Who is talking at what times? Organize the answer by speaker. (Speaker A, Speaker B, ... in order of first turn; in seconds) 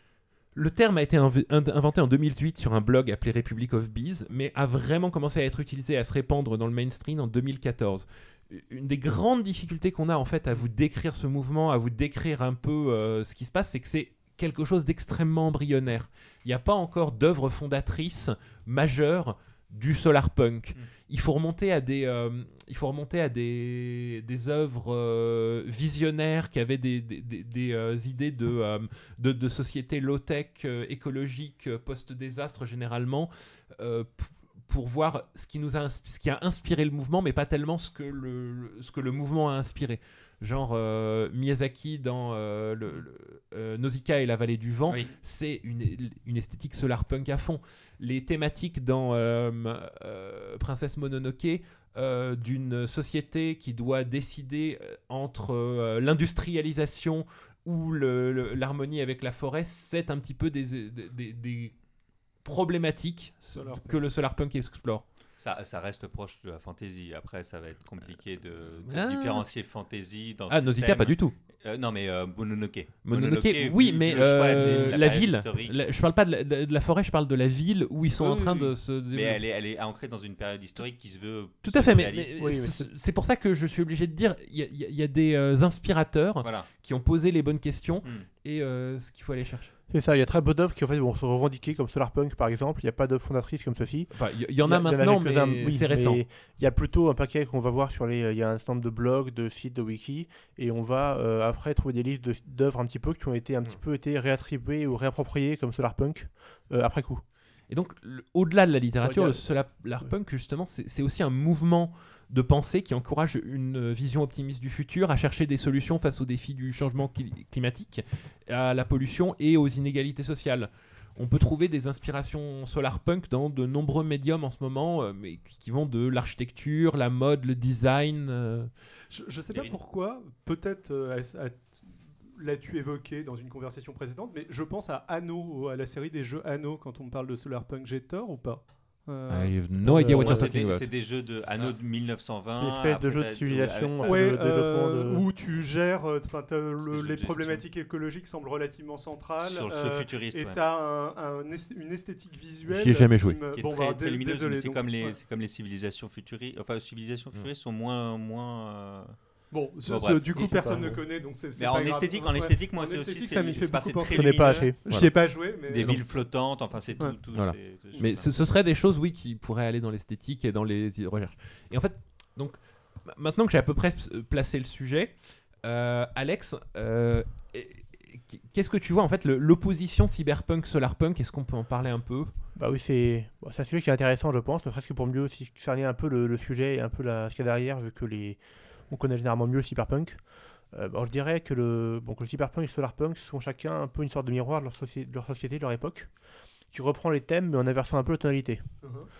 Speaker A: 0.5-61.8, 62.4-65.0, 68.8-69.5, 70.5-71.3, 73.0-79.4, 81.6-89.7, 94.1-96.2, 107.7-128.7, 139.3-140.9, 152.7-153.4, 167.3-182.3
Speaker B: 63.5-64.0, 78.2-78.7, 129.1-140.4, 144.0-155.2, 159.5-166.0, 198.8-199.1
Speaker C: 65.4-75.8, 79.1-82.5, 86.4-86.7, 140.2-144.0, 146.8-147.6, 149.4-150.6, 153.5-159.2, 159.8-160.7, 161.5-168.4
Speaker D: 82.4-82.9, 89.9-107.2, 109.0-109.4, 139.8-140.4, 142.6-145.2, 160.4-161.0, 164.1-164.8, 182.6-196.1, 196.7-198.7